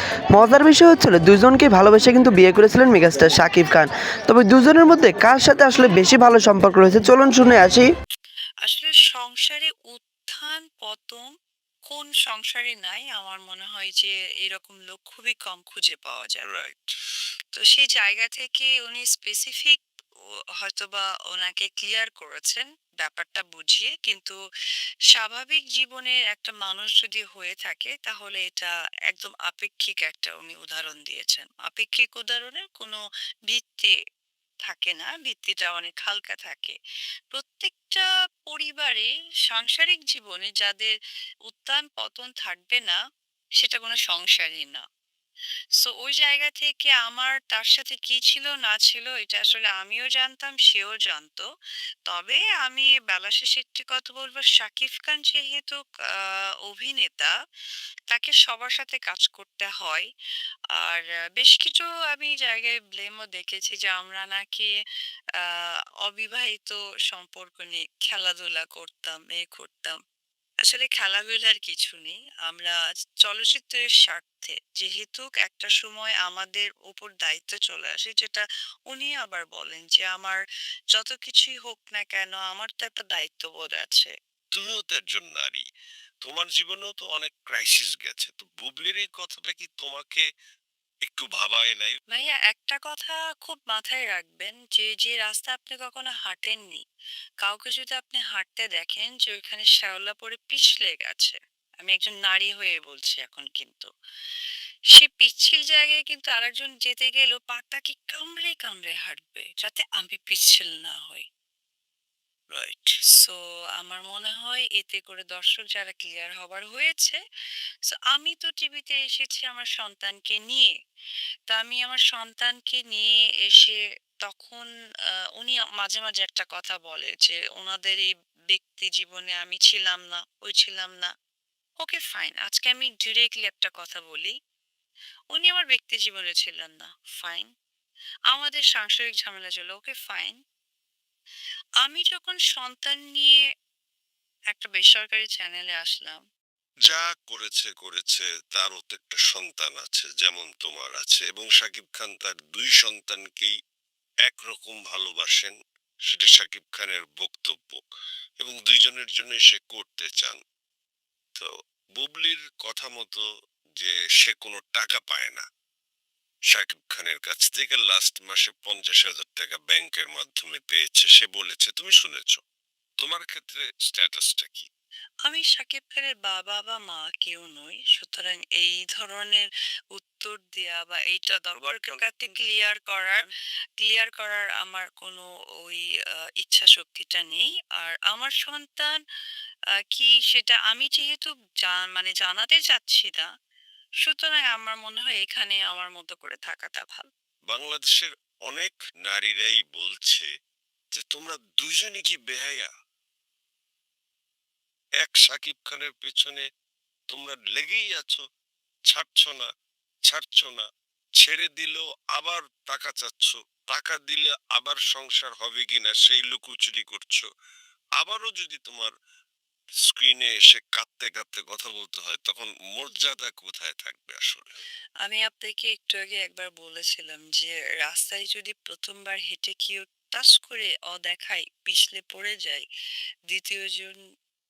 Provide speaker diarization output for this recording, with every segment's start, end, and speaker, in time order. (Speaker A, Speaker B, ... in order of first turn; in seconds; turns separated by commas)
Speaker A: 0.3-7.9, Speaker B: 8.6-11.3, Speaker B: 11.9-16.5, Speaker C: 16.4-16.9, Speaker B: 17.5-19.8, Speaker B: 20.6-24.4, Speaker B: 25.1-33.0, Speaker B: 33.5-33.9, Speaker B: 34.6-36.8, Speaker B: 37.3-40.9, Speaker B: 41.5-43.0, Speaker B: 43.6-44.8, Speaker B: 45.8-51.5, Speaker B: 52.1-57.3, Speaker B: 58.1-60.1, Speaker B: 60.8-64.7, Speaker B: 65.4-70.0, Speaker B: 70.6-80.4, Speaker B: 80.9-84.1, Speaker C: 84.5-85.6, Speaker C: 86.2-90.2, Speaker C: 91.0-92.0, Speaker B: 92.1-96.8, Speaker B: 97.4-103.9, Speaker B: 104.9-111.2, Speaker B: 112.6-117.2, Speaker B: 117.9-120.7, Speaker B: 121.5-124.7, Speaker B: 125.3-131.1, Speaker B: 131.8-134.3, Speaker B: 135.3-137.5, Speaker B: 138.3-140.4, Speaker B: 141.8-143.4, Speaker B: 144.5-146.2, Speaker C: 146.9-153.5, Speaker C: 154.2-155.5, Speaker C: 156.1-157.8, Speaker C: 158.4-160.4, Speaker C: 161.3-163.2, Speaker C: 163.8-165.4, Speaker C: 166.5-172.4, Speaker C: 173.0-174.7, Speaker B: 175.2-183.2, Speaker B: 183.8-185.8, Speaker B: 186.4-188.9, Speaker B: 189.9-193.3, Speaker B: 194.0-197.1, Speaker C: 197.5-200.2, Speaker C: 200.9-202.7, Speaker C: 205.0-206.4, Speaker C: 207.1-208.2, Speaker C: 208.9-209.5, Speaker C: 210.1-210.7, Speaker C: 211.2-217.2, Speaker C: 218.0-218.9, Speaker C: 219.8-224.5, Speaker B: 225.0-232.7, Speaker B: 233.3-234.0